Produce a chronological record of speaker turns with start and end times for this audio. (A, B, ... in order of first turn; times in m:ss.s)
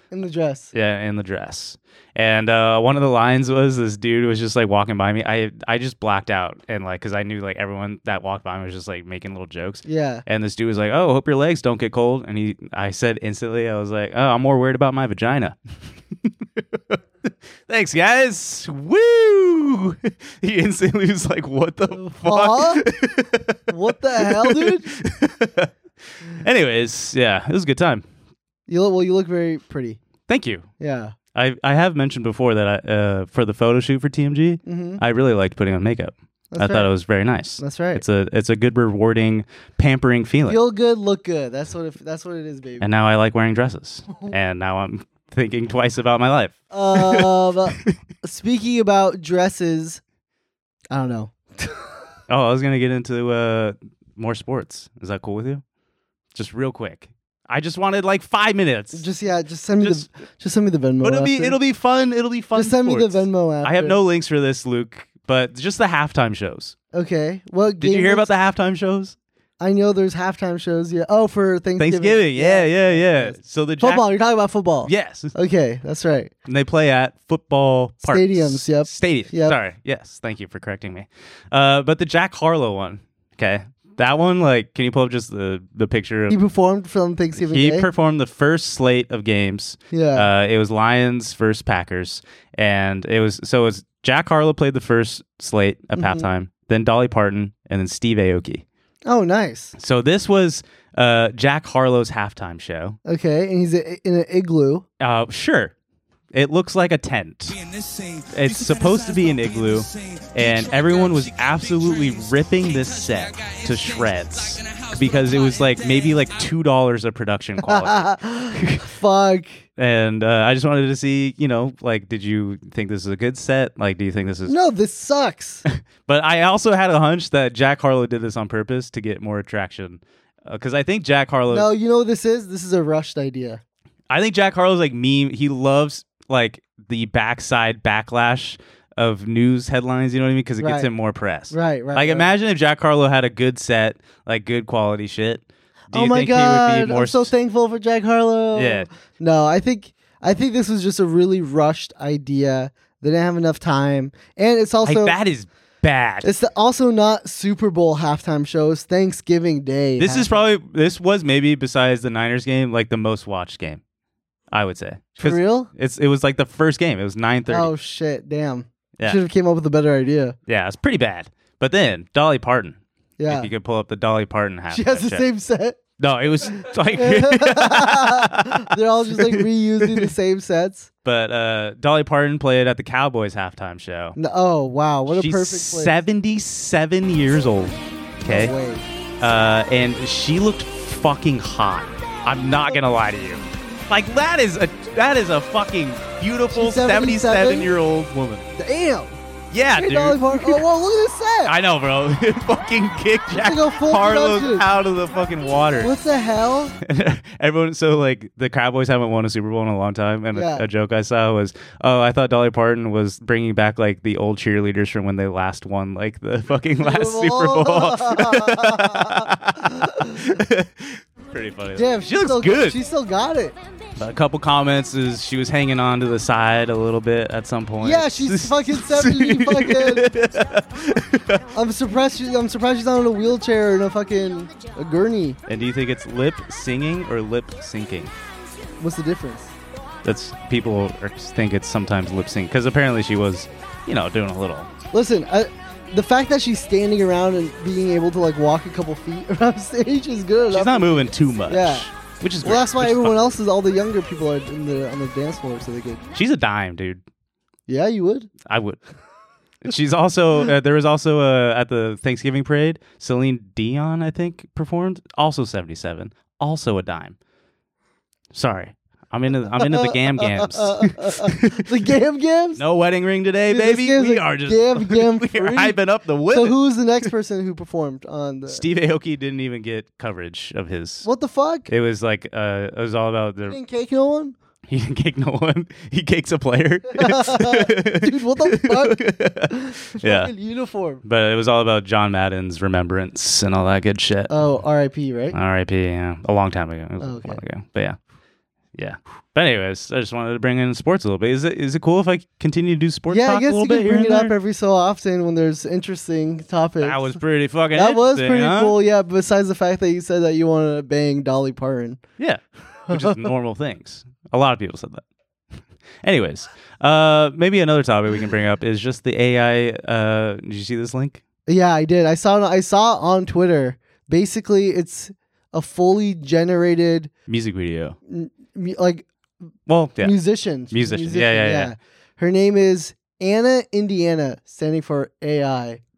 0:00.1-0:00.7 A
0:00.7-0:15.6 B
0:09.9-0:10.2 A
0:17.7-0:23.6 B
0:21.9-0:22.9 A
0:23.7-0:24.9 A
0:24.2-0:25.7 B
0:26.2-0:28.0 B
0:28.7-0:30.0 A
0:30.3-0:30.7 B
0:30.8-0:31.2 A
0:31.3-0:40.6 B
0:34.6-0:35.0 A
0:36.5-0:36.9 A
0:37.6-0:38.0 A
0:40.5-0:42.9 A
0:42.8-0:47.9 B
0:46.7-0:50.0 A
0:50.9-0:51.9 A
0:52.3-0:55.6 B
0:56.4-0:59.1 B
0:58.9-1:01.6 A
1:01.0-1:06.8 B
1:02.6-1:04.0 A
1:06.9-1:08.3 A
1:07.8-1:09.2 B
1:09.6-1:16.3 A
1:11.8-1:14.1 B
1:14.8-1:15.3 B
1:16.5-1:26.4 B
1:18.0-1:19.6 A
1:26.3-1:27.9 A
1:27.4-1:38.6 B
1:29.9-1:30.3 A
1:36.0-1:36.3 A
1:39.1-1:39.7 A
1:39.8-1:43.0 B
1:43.0-1:44.8 A
1:45.0-1:45.7 B
1:46.3-1:47.6 B
1:47.5-1:56.4 C
1:48.3-1:58.9 B
1:57.6-1:59.6 A
1:59.8-2:04.6 B
2:04.5-2:05.6 A
2:05.7-2:11.7 B
2:11.5-2:13.6 A
2:14.1-2:27.3 B
2:20.6-2:20.9 A
2:21.5-2:22.3 A
2:25.9-2:35.1 A
2:28.6-2:28.9 B
2:34.8-2:36.3 B
2:36.2-2:40.4 A
2:40.0-2:43.8 B
2:44.5-2:47.7 B
2:45.2-2:45.7 A
2:47.5-2:50.4 A
2:50.5-2:52.8 B
2:53.2-2:53.5 A
2:53.3-2:55.2 B
2:54.7-2:55.8 A
2:56.0-3:00.1 B
2:56.6-3:00.9 A
3:01.0-3:04.2 B
3:04.2-3:05.9 A
3:05.1-3:08.5 B
3:08.2-3:08.9 A
3:09.2-3:18.5 B
3:16.5-3:17.7 A
3:18.6-3:19.2 A
3:19.5-3:20.6 B
3:19.8-3:21.6 A
3:21.4-3:25.9 B
3:23.3-3:24.7 A
3:25.8-3:26.8 A
3:26.8-3:42.8 B
3:30.3-3:30.6 A
3:36.8-3:40.4 A
3:41.8-3:43.6 A
3:44.0-3:51.4 B
3:47.8-3:50.1 A
3:51.5-3:55.4 A
3:55.5-3:58.1 B
3:58.8-3:59.6 A
4:00.0-4:04.7 B
4:04.9-4:11.9 A
4:10.5-4:13.2 B
4:12.4-4:16.0 A
4:16.1-4:17.0 B
4:17.7-4:18.3 A
4:18.5-4:18.8 B
4:19.6-4:27.2 B
4:28.3-4:31.7 B
4:29.6-4:32.6 A
4:32.6-4:36.6 B
4:33.5-4:35.8 A
4:36.3-4:38.6 A
4:38.5-4:41.1 B
4:41.0-4:41.7 A
4:41.7-4:43.6 B
4:43.5-4:44.4 A
4:44.7-4:50.3 B
4:47.0-4:51.0 A
4:51.0-4:54.3 B
4:54.3-4:55.4 A
4:55.3-4:58.0 B
4:57.0-4:57.4 A
4:58.8-5:04.3 B
5:03.1-5:07.2 A
5:06.8-5:08.8 B
5:07.7-5:12.0 A
5:12.2-5:15.0 B
5:12.9-5:13.3 A
5:16.0-5:21.2 B
5:21.5-5:27.1 A
5:27.3-5:28.0 B
5:28.1-5:29.1 A
5:29.7-5:30.2 B
5:30.0-5:35.8 A
5:30.7-5:31.7 B